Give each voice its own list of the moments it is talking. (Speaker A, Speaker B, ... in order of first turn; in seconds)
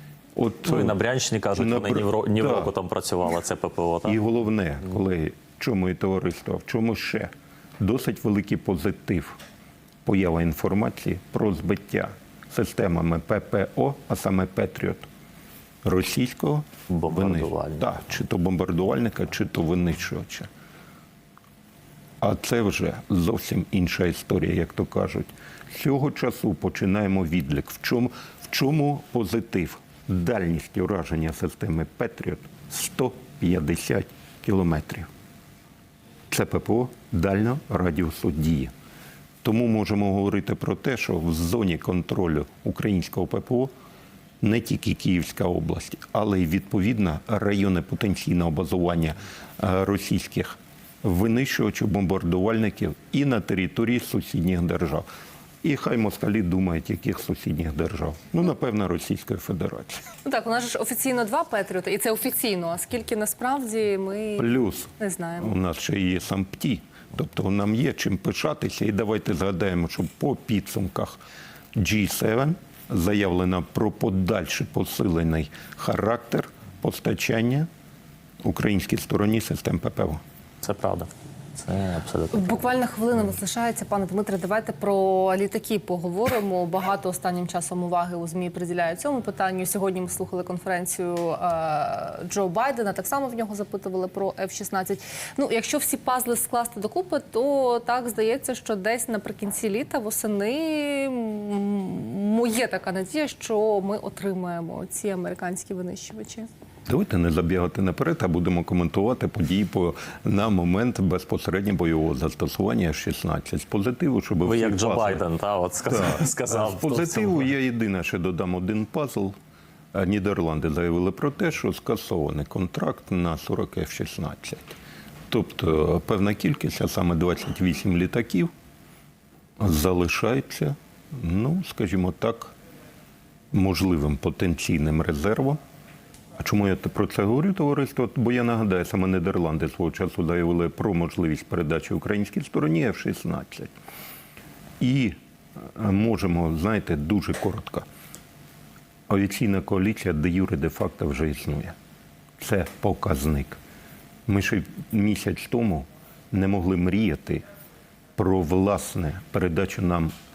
Speaker A: 0.4-1.0, 1.5-2.7, 4.0-9.4, 10.1-15.1, 15.8-20.5, 22.2-35.1, 36.3-38.7, 39.4-43.7, 44.4-55.1, 55.6-60.0, 64.4-71.2, 71.8-77.7, 78.4-80.2, 106.9-115.2, 115.9-119.4, 119.9-124.7, 125.3-128.5, 129.6-132.5, 133.5-135.6, 136.4-143.7, 144.8-147.9, 149.1-151.8, 152.4-153.6, 154.3-157.4, 158.2-160.1
Speaker B: 0.6-4.2, 16.9-17.9, 80.6-82.5, 114.4-117.5
Speaker C: 60.2-65.5, 82.3-106.5